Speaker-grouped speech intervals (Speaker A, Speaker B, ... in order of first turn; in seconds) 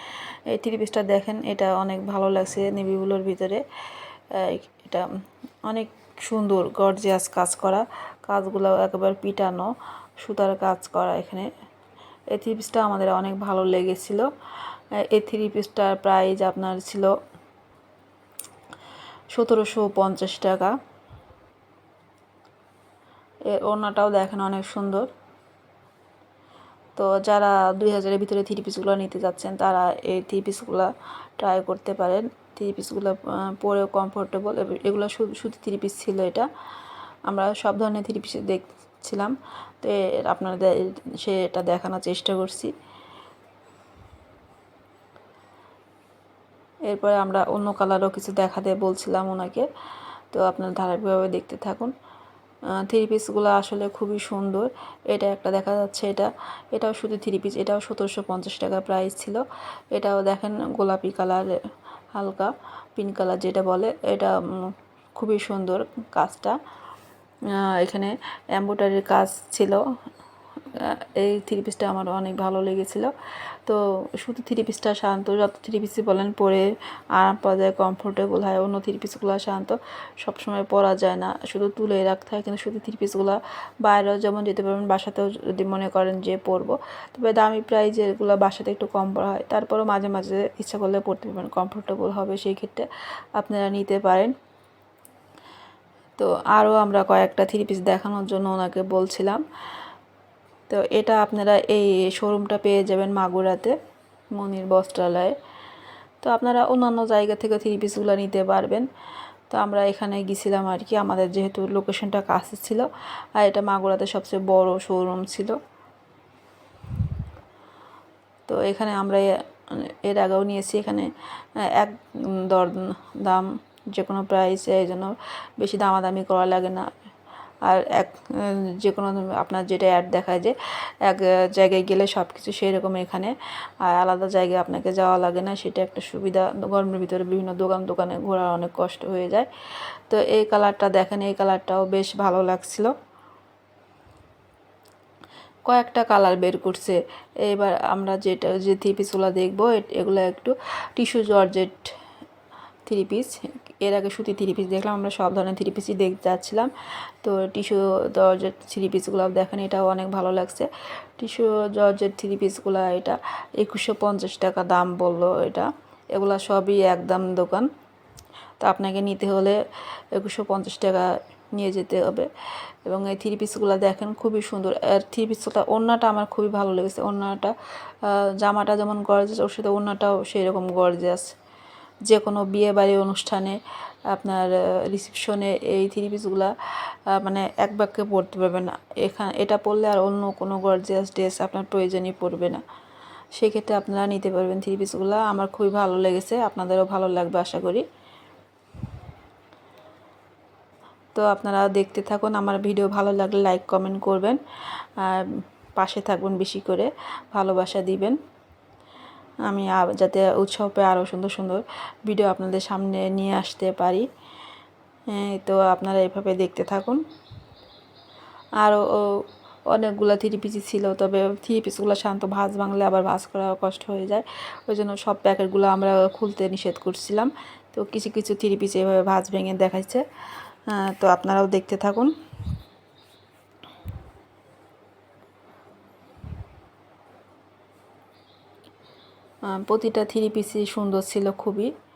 Speaker A: 0.5-3.6, 4.3-5.1, 5.7-11.5, 12.3-14.3, 15.0-17.1, 19.3-20.8, 23.5-25.1, 26.9-36.5, 37.3-42.7, 46.9-49.7, 50.3-51.9, 52.8-61.6, 62.1-66.6, 67.5-69.8, 70.7-73.1, 73.6-94.3, 96.2-99.4, 100.7-103.7, 104.3-105.3, 106.2-108.9, 109.5-115.6, 118.5-126.9, 127.6-139.5, 140.1-142.9, 145.7-151.9, 152.8-156.7, 157.2-167.7, 168.6-169.6, 170.1-172.3, 172.8-181.3, 182.1-183.6, 184.1-186.5, 187.1-192.6, 193.3-197.8, 201.1-208.2, 209.4-214.1, 215.1-217.0, 218.6-230.0, 230.7-232.1, 239.4-241.7